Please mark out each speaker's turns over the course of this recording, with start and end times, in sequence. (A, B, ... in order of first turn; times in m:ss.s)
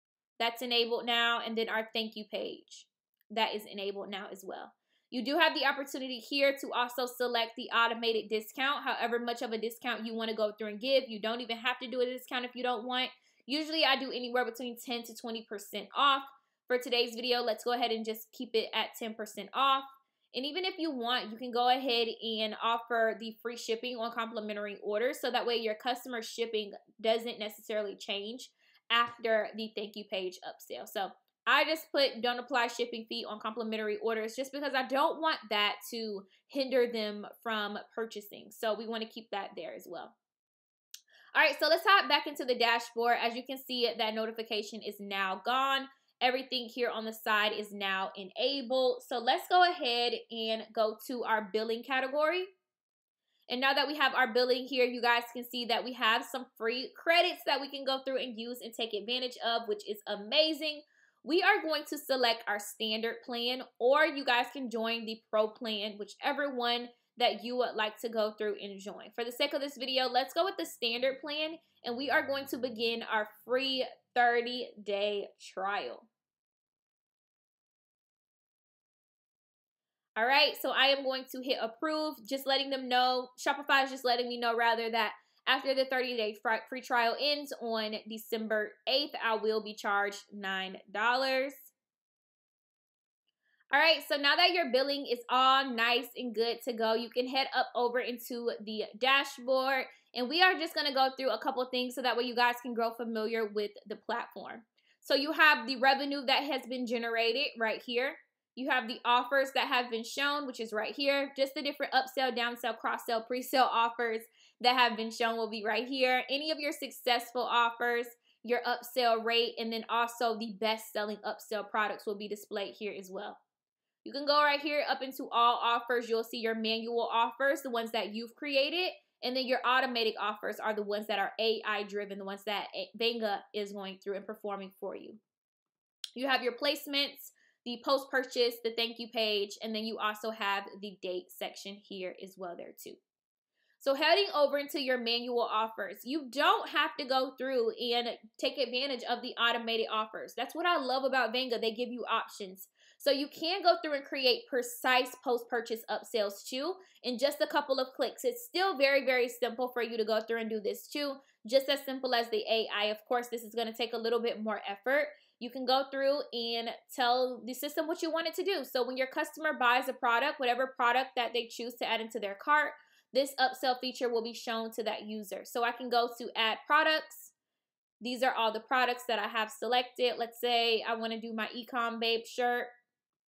0:00.4-0:40.1 A
0:41.3-0:52.5 A
0:53.5-1:16.1 A
1:20.2-1:31.7 A
1:33.7-2:03.4 A
2:04.0-2:15.2 A
2:16.2-2:23.0 A
2:23.8-2:57.3 A
2:58.0-3:02.7 A